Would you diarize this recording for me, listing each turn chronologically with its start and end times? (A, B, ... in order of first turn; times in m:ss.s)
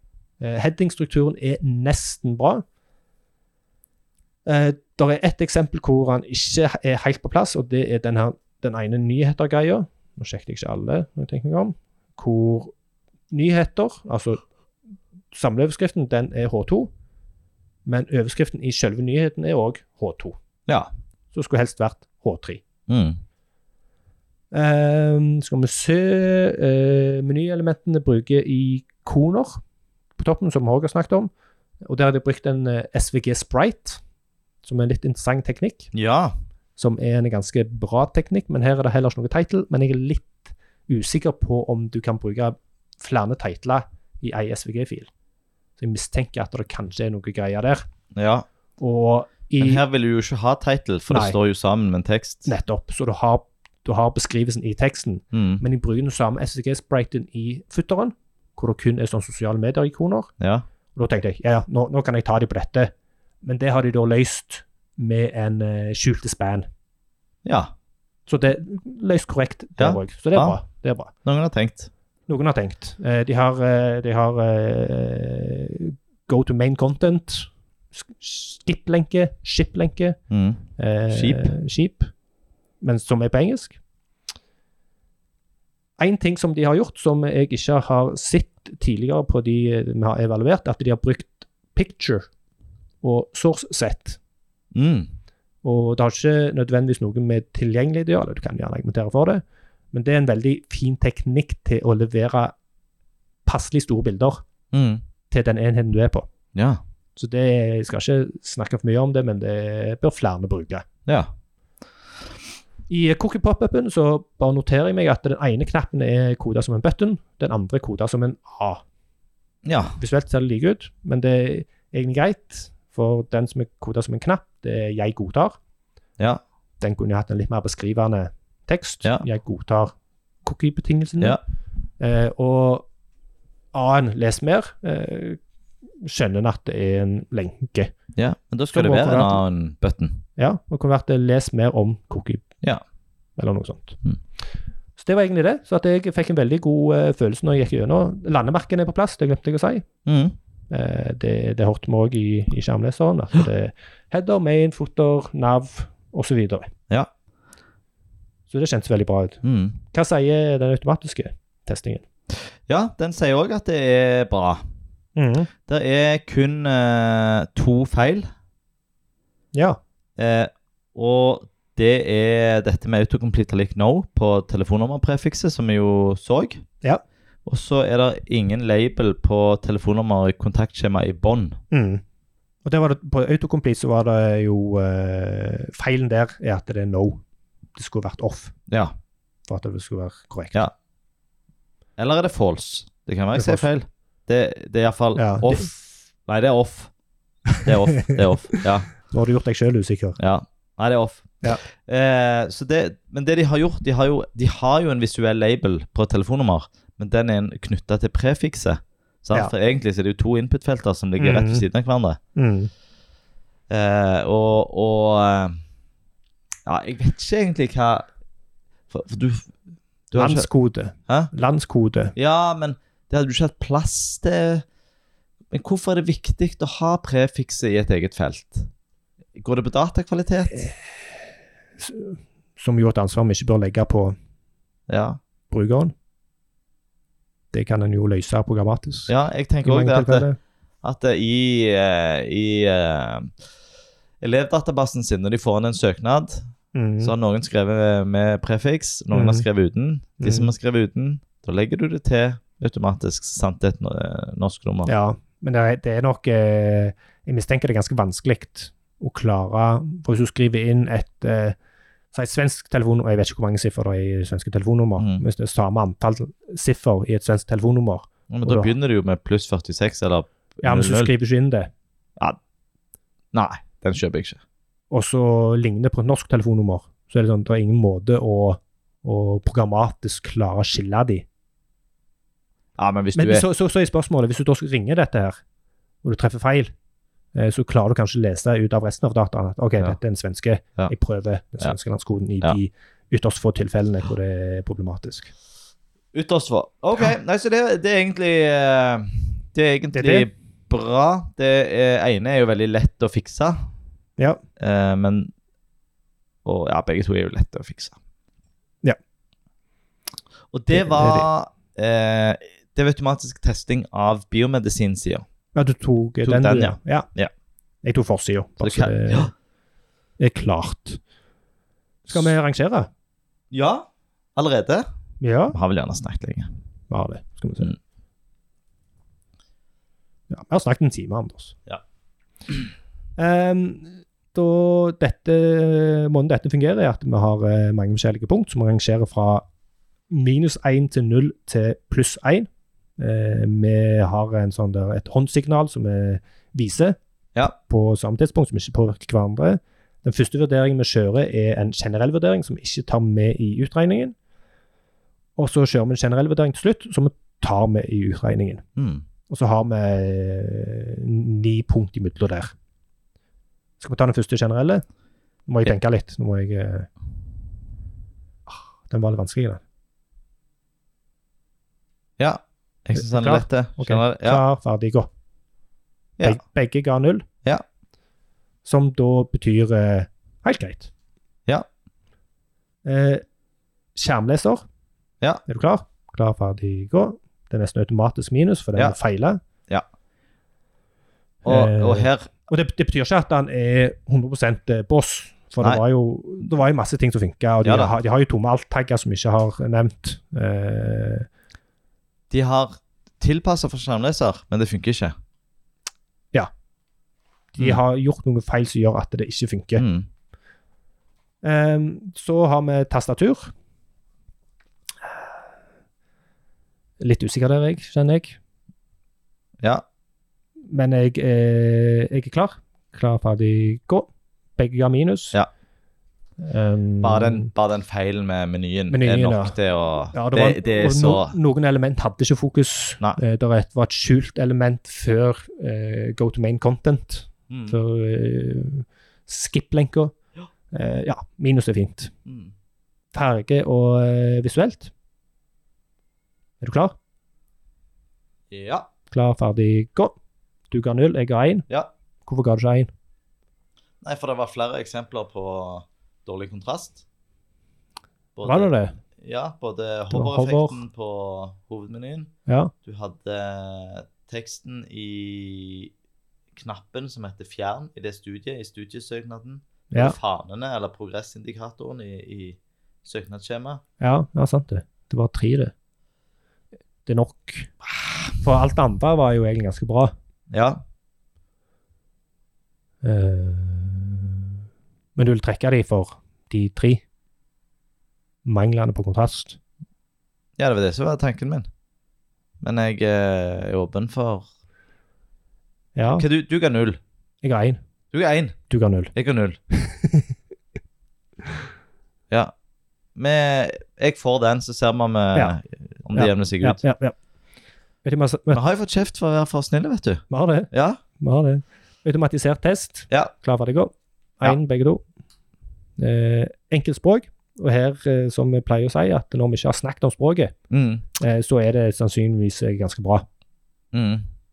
0:00.4-0:02.6 A
0:04.4-0:12.7 A
0:13.3-0:14.4 A
0:15.3-0:16.9 A
0:17.9-0:20.4 A
0:21.3-0:22.6 A
0:22.9-0:23.2 B
0:24.5-0:29.6 A
0:30.2-0:31.3 A
0:31.8-0:34.0 A
0:34.6-0:35.9 A
0:35.9-0:36.4 B
0:36.8-0:45.1 A
0:45.8-0:47.8 A
0:48.1-0:48.4 B
0:48.8-0:49.8 A
0:49.6-0:52.5 B
0:51.1-0:51.4 A
0:52.5-1:00.3 A
0:55.3-0:55.6 B
1:00.4-1:00.6 B
1:01.0-1:02.9 A
1:03.4-1:06.7 A
1:07.4-1:07.7 B
1:08.3-1:11.1 A
1:09.8-1:10.6 B
1:11.2-1:11.9 B
1:12.3-1:20.2 A
1:20.3-1:21.5 B
1:20.8-1:22.1 A
1:22.8-1:23.8 A
1:26.0-1:32.3 A
1:33.0-1:34.2 A
1:34.7-1:35.1 B
1:35.6-1:42.6 A
1:43.4-1:44.4 A
1:44.7-1:45.0 B
1:45.3-1:46.3 A
1:46.6-1:46.8 B
1:47.2-1:50.8 A
1:51.1-1:51.3 B
1:52.9-1:58.8 A
1:59.6-2:00.0 B
2:00.0-2:05.6 A
2:06.8-2:11.4 A
2:12.0-2:12.9 A
2:13.7-2:15.4 A
2:16.0-2:17.9 A
2:18.2-2:20.2 B
2:18.7-2:19.4 A
2:20.4-2:22.4 A
2:23.4-2:24.0 A
2:25.0-2:29.9 A
2:30.1-2:30.4 B
2:30.7-2:36.7 A
2:38.5-2:42.0 A
2:39.4-2:39.8 B
2:42.7-2:44.6 B
2:45.2-2:45.5 A
2:45.7-2:48.3 B
2:49.5-2:49.8 A
2:50.2-2:56.6 B
2:57.5-3:01.6 B
3:01.7-3:02.0 A
3:02.6-3:07.2 A
3:07.8-3:08.6 A
3:08.7-3:08.9 B
3:09.5-3:10.6 A
3:12.0-3:16.9 B
3:13.4-3:13.7 A
3:15.2-3:15.7 A
3:17.5-3:18.2 A
3:17.6-3:18.9 B
3:19.0-3:20.2 A
3:20.2-3:32.2 B
3:31.2-3:31.6 A
3:32.4-3:32.7 A
3:33.7-3:35.6 B
3:36.7-3:38.1 B
3:38.9-3:39.5 B
3:40.1-3:40.5 B
3:40.2-3:42.2 A
3:42.2-3:44.6 B
3:45.5-3:48.7 B
3:49.4-3:50.7 B
3:51.8-3:54.2 A
3:54.9-3:55.2 B
3:55.5-3:55.9 A
3:57.5-4:00.4 A
3:59.1-4:00.3 B
4:00.8-4:03.3 B
4:04.2-4:06.5 B
4:06.7-4:07.1 A
4:07.0-4:14.9 B
4:09.1-4:09.4 A
4:10.2-4:10.5 A
4:14.9-4:21.6 A
4:22.1-4:28.7 A
4:25.0-4:25.2 B
4:28.3-4:31.1 B
4:30.6-4:31.7 A
4:33.3-4:34.4 B
4:34.9-4:41.2 A
4:42.8-4:43.4 B
4:43.2-4:45.4 A
4:46.0-4:46.7 A
4:47.4-4:55.3 A
4:56.1-5:03.7 B
4:59.9-5:00.3 A
5:04.6-5:05.3 B
5:06.4-5:08.0 B
5:10.5-5:15.3 B
5:10.7-5:11.3 A
5:15.6-5:17.1 A
5:16.2-5:17.3 B
5:17.8-5:19.3 A
5:18.6-5:19.3 B
5:20.2-5:21.0 A
5:22.1-5:22.9 A
5:23.5-5:24.9 B
5:25.2-5:25.6 A
5:25.5-5:26.5 B
5:26.9-5:27.8 A
5:30.3-5:31.6 A
5:33.2-5:39.4 A
5:40.1-5:47.0 A
5:47.7-5:54.2 A
5:55.4-5:58.6 A
5:58.8-5:59.0 B
5:59.3-6:02.5 A
6:03.8-6:04.8 A
6:05.5-6:06.9 A
6:08.5-6:09.6 A
6:12.2-6:14.4 B
6:13.0-6:15.1 A
6:16.2-6:17.3 A
6:18.6-6:20.9 A
6:22.8-6:23.2 A
6:24.0-6:24.6 A
6:25.5-6:29.4 A
6:31.4-6:32.3 B
6:31.4-6:41.3 A
6:37.6-6:37.9 B
6:42.3-6:45.2 B
6:47.5-6:49.8 A
6:49.8-6:50.1 B
6:51.4-6:53.5 A
6:57.0-6:58.4 A
7:00.7-7:05.4 A
7:06.4-7:07.5 A
7:07.0-7:11.4 B
7:08.9-7:09.6 A
7:10.1-7:20.1 A
7:17.5-7:17.8 B
7:20.7-7:22.1 A
7:22.3-7:22.5 B
7:23.1-7:24.9 A
7:26.6-7:27.0 A
7:28.5-7:28.9 B
7:29.1-7:30.2 A
7:30.7-7:31.7 A
7:32.3-7:32.9 A
7:34.0-7:37.0 B
7:38.4-7:42.3 B
7:38.4-7:39.0 A
7:40.1-7:40.8 A
7:42.5-7:42.7 A
7:42.8-7:45.9 B
7:46.5-7:53.8 B
7:49.9-7:50.2 A
7:54.0-7:55.7 A
7:57.1-7:57.7 A
7:58.4-8:00.1 A
8:00.5-8:00.8 B
8:03.0-8:04.4 A
8:05.2-8:07.0 A
8:08.4-8:09.6 A
8:10.6-8:11.7 B
8:12.6-8:14.5 B
8:16.0-8:16.3 A
8:16.2-8:17.0 B
8:17.4-8:17.8 A
8:18.1-8:18.6 B
8:18.7-8:19.1 A
8:19.1-8:19.6 B
8:19.7-8:20.3 A
8:23.2-8:26.8 B
8:26.1-8:27.2 A
8:28.0-8:28.6 A
8:28.5-8:31.0 B
8:30.3-8:35.0 A
8:36.0-8:40.5 A
8:40.7-8:41.0 B
8:41.2-8:43.3 A
8:43.9-8:44.3 B